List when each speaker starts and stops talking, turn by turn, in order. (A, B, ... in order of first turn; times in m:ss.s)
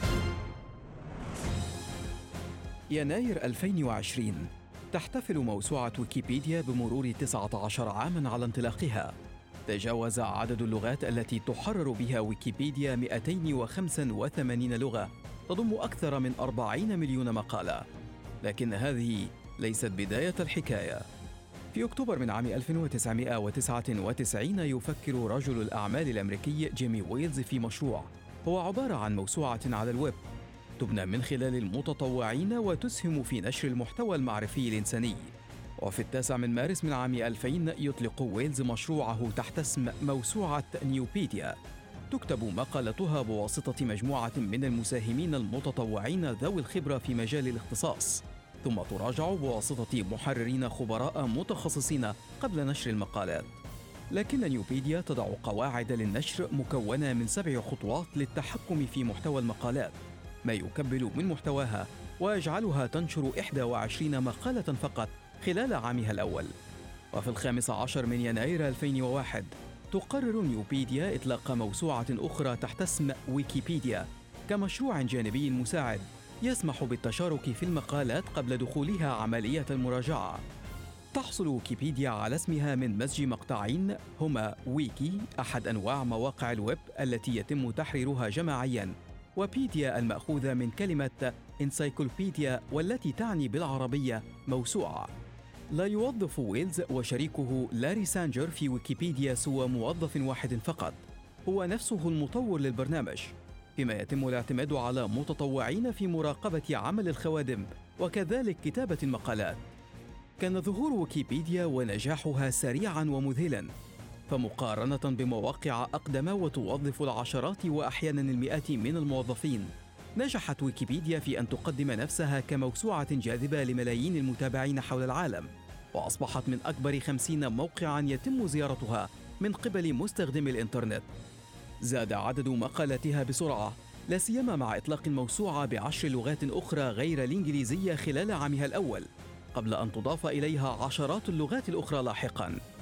0:02.9-0:09.1 A
0:09.7-0:17.9 A
0:18.4-0:21.0 A
0:21.7-0:30.2 A
0:30.8-0:41.6 A
0:42.1-0:53.6 A
0:54.1-1:06.5 A
1:07.1-1:20.4 A
1:21.1-1:35.1 A
1:35.7-1:49.7 A
1:50.4-1:53.7 A
1:54.3-2:11.0 A
2:11.8-2:22.6 A